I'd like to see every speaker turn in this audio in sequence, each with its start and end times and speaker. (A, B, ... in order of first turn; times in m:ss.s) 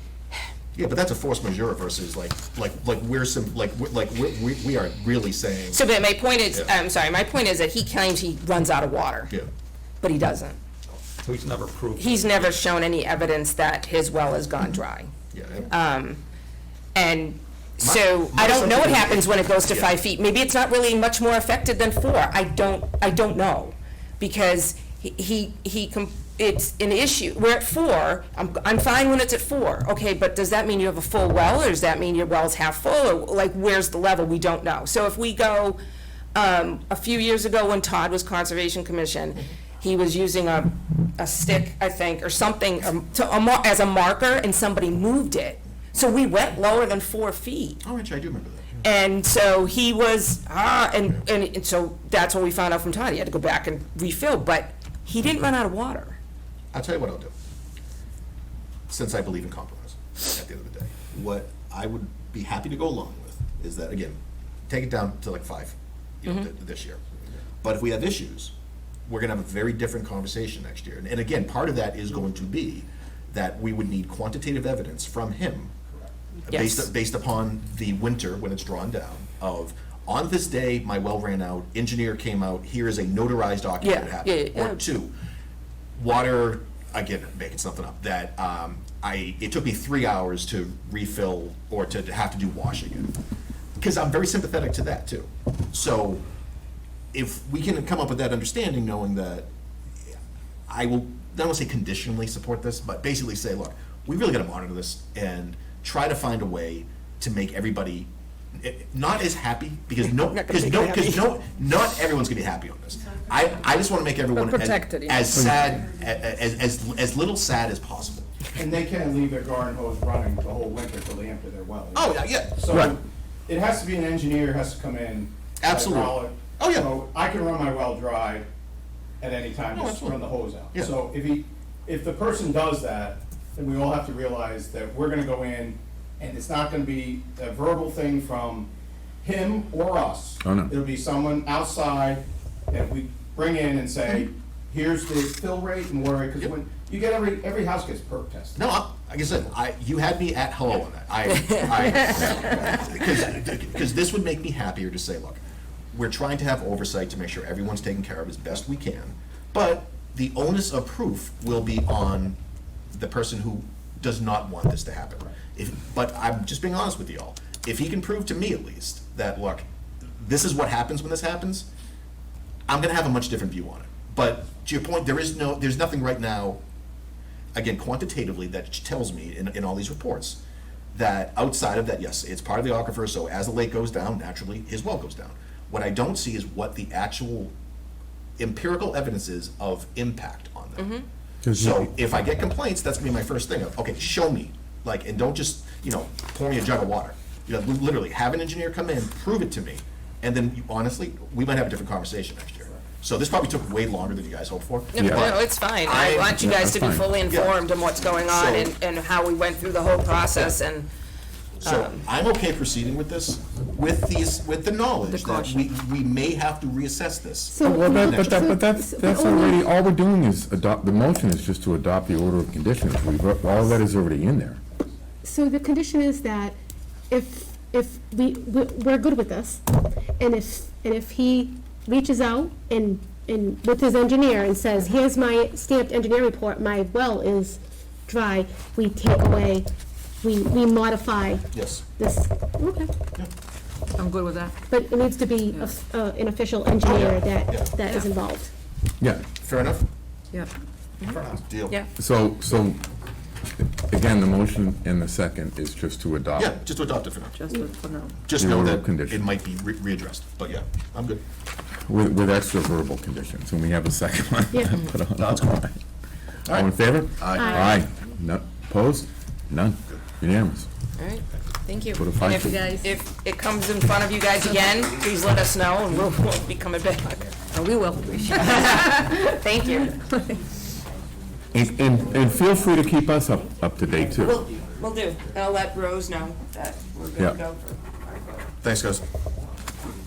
0:00.8-0:05.8 A
0:05.7-0:09.3 B
0:10.0-0:10.6 B
0:11.2-0:11.7 C
0:12.0-0:15.1 B
0:15.3-0:15.7 A
0:15.7-0:16.2 B
0:17.0-0:35.8 B
0:17.8-0:20.0 A
0:36.4-0:47.8 B
0:47.8-0:48.8 A
0:48.8-0:56.2 B
0:56.7-0:57.3 A
0:58.9-1:07.0 A
1:07.6-1:08.5 A
1:09.1-1:15.7 A
1:16.5-1:25.1 A
1:16.5-1:16.9 B
1:23.8-1:24.8 B
1:26.0-1:33.1 A
1:33.8-1:36.2 A
1:37.1-1:39.5 A
1:40.7-1:58.3 A
1:50.0-1:51.3 B
1:54.3-1:55.3 D
1:55.3-1:55.7 E
1:58.6-2:08.5 C
2:01.9-2:02.6 A
2:05.6-2:06.9 A
2:09.2-2:18.7 C
2:09.7-2:10.9 A
2:19.2-2:28.6 C
2:20.4-2:20.7 E
2:28.6-2:35.4 A
2:31.3-2:32.7 B
2:35.9-2:42.4 A
2:42.9-2:49.6 A
2:50.2-2:51.7 A
2:52.7-2:56.6 A
2:57.6-3:00.4 A
3:00.9-3:07.5 A
3:08.4-3:11.0 A
3:10.8-3:11.1 B
3:11.4-3:11.9 E
3:11.5-3:26.4 A
3:24.9-3:30.9 B
3:25.0-3:25.2 E
3:26.3-3:27.2 E
3:27.3-3:27.6 A
3:28.2-3:28.7 A
3:31.6-3:38.4 A
3:31.6-3:32.0 B
3:35.1-3:35.6 D
3:37.5-3:39.6 F
3:37.6-3:44.6 E
3:45.2-3:46.6 F
3:47.1-3:49.6 F
3:50.2-3:59.7 F
4:00.2-4:02.9 F
4:01.5-4:01.8 A
4:04.0-4:04.6 D
4:04.7-4:08.5 F
4:05.4-4:05.8 D
4:06.8-4:07.7 A
4:07.8-4:08.1 D
4:09.0-4:09.3 E
4:09.4-4:09.9 A
4:11.0-4:11.8 A
4:12.0-4:12.8 E
4:13.9-4:16.5 E
4:16.4-4:17.4 A
4:17.4-4:18.3 D
4:18.3-4:21.2 A
4:18.3-4:19.2 E
4:21.9-4:25.8 E
4:25.2-4:25.5 A
4:26.5-4:27.6 A
4:26.5-4:30.7 E
4:27.3-4:27.8 F
4:31.0-4:37.3 B
4:32.0-4:32.7 E
4:32.3-4:32.9 D
4:37.5-4:39.2 D
4:38.3-4:40.0 B
4:39.8-4:40.4 D
4:41.5-4:44.4 E
4:44.1-4:48.0 B
4:48.6-4:49.0 A